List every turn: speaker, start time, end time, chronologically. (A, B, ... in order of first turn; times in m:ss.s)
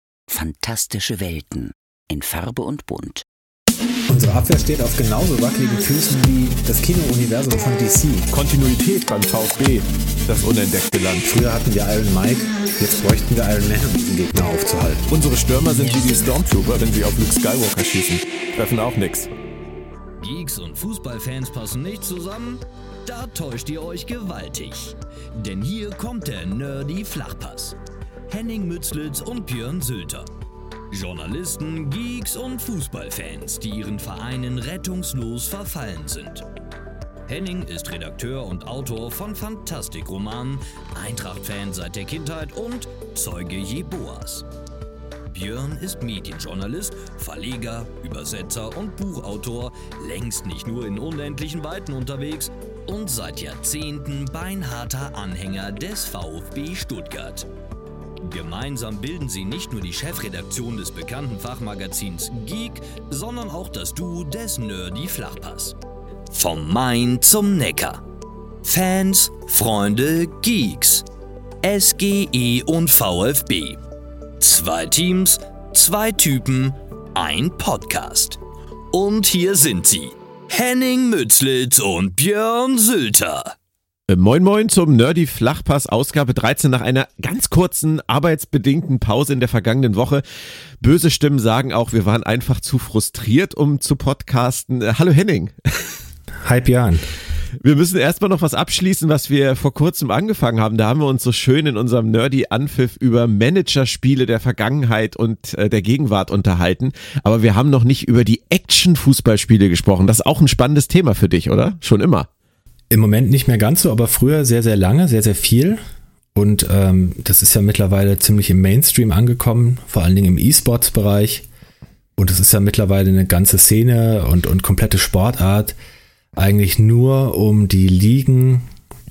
0:00.3-0:03.2 A
0:04.1-0:08.3 B
0:08.3-0:11.3 C
0:11.2-0:15.0 B
0:15.1-0:19.3 C
0:20.2-0:27.8 D
0:28.3-0:30.3 D
0:30.9-0:36.4 D
0:37.3-0:44.5 D
0:45.3-0:57.5 D
0:58.2-1:05.8 D
1:06.3-1:08.0 D
1:08.6-1:11.0 D
1:11.6-1:13.8 D
1:14.4-1:18.4 D
1:18.9-1:23.5 D
1:24.1-1:30.2 C
1:30.8-1:36.0 C
1:36.4-1:37.1 B
1:37.6-1:52.3 C
1:52.9-1:55.8 B
1:56.3-2:01.4 B
2:02.2-2:05.8 B
2:06.4-2:08.7 B